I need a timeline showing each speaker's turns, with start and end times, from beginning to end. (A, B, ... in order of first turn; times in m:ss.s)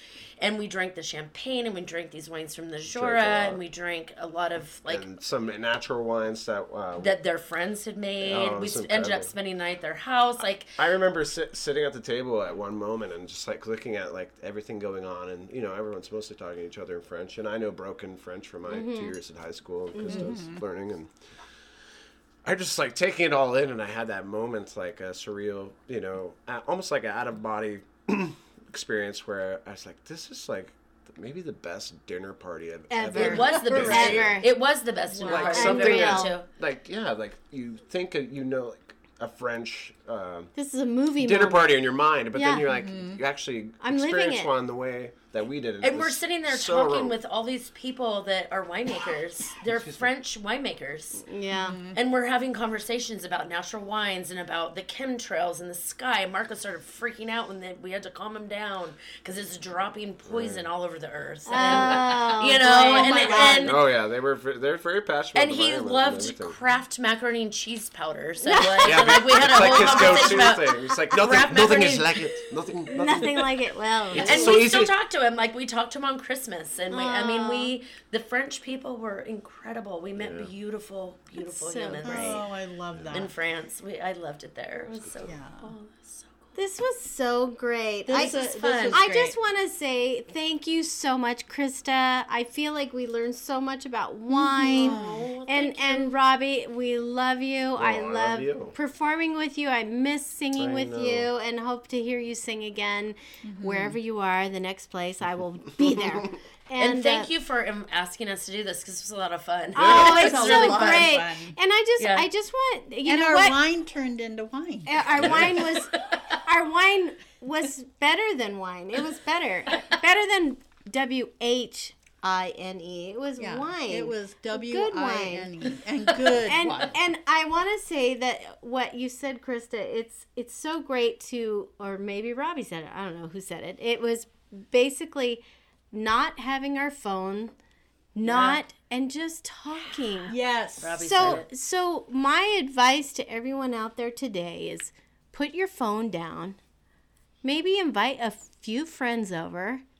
0:00.4-0:05.0 A
0:02.9-0:03.6 B
0:04.9-0:07.2 B
0:07.0-0:10.8 A
0:08.2-0:09.3 B
0:10.8-0:21.1 B
0:18.7-0:19.1 C
0:20.0-0:20.3 C
0:20.0-0:20.6 D
0:22.4-0:34.4 B
0:32.9-0:34.5 C
0:33.1-0:36.5 A
0:35.2-0:35.7 D
0:35.2-0:40.5 B
0:35.3-0:36.3 C
0:40.6-0:41.7 C
0:41.2-0:47.2 B
0:42.3-0:42.6 C
0:42.7-0:43.2 D
0:43.8-0:44.5 C
0:45.8-0:51.2 A
0:49.6-0:50.1 B
0:51.2-0:51.8 C
0:51.5-0:52.0 D
0:51.9-1:03.8 A
1:00.2-1:00.7 B
1:01.4-1:03.8 C
1:01.6-1:02.1 B
1:02.6-1:03.8 D
1:03.6-1:06.6 B
1:05.3-1:12.4 A
1:08.4-1:11.0 C
1:08.8-1:13.5 B
1:12.9-1:14.6 C
1:14.1-1:14.9 B
1:14.1-1:22.5 A
1:16.9-1:17.7 C
1:20.2-1:20.5 B
1:21.4-1:22.4 C
1:22.0-1:23.3 D
1:22.9-1:23.2 B
1:23.1-1:26.5 A
1:25.0-1:25.3 B
1:25.2-1:25.7 D
1:26.5-1:47.3 C
1:28.0-1:29.4 D
1:28.1-1:29.0 A
1:34.3-1:35.3 D
1:34.7-1:36.2 A
1:37.8-1:38.8 B
1:40.5-1:41.3 B
1:43.4-1:44.0 D
1:46.8-1:51.1 A
1:49.7-1:53.6 C
1:49.8-1:51.6 D
1:49.9-1:50.1 B
1:52.0-1:52.3 A
1:53.0-1:55.3 D
1:54.8-2:05.5 C
1:55.1-1:55.6 B
1:55.4-1:56.4 A
2:03.4-2:06.9 D
2:06.3-2:06.9 A
2:06.4-2:17.5 C
2:18.1-2:20.3 C
2:18.2-2:18.6 A
2:20.3-2:21.4 D
2:20.8-2:21.5 A
2:21.0-2:26.6 C
2:27.4-2:29.8 C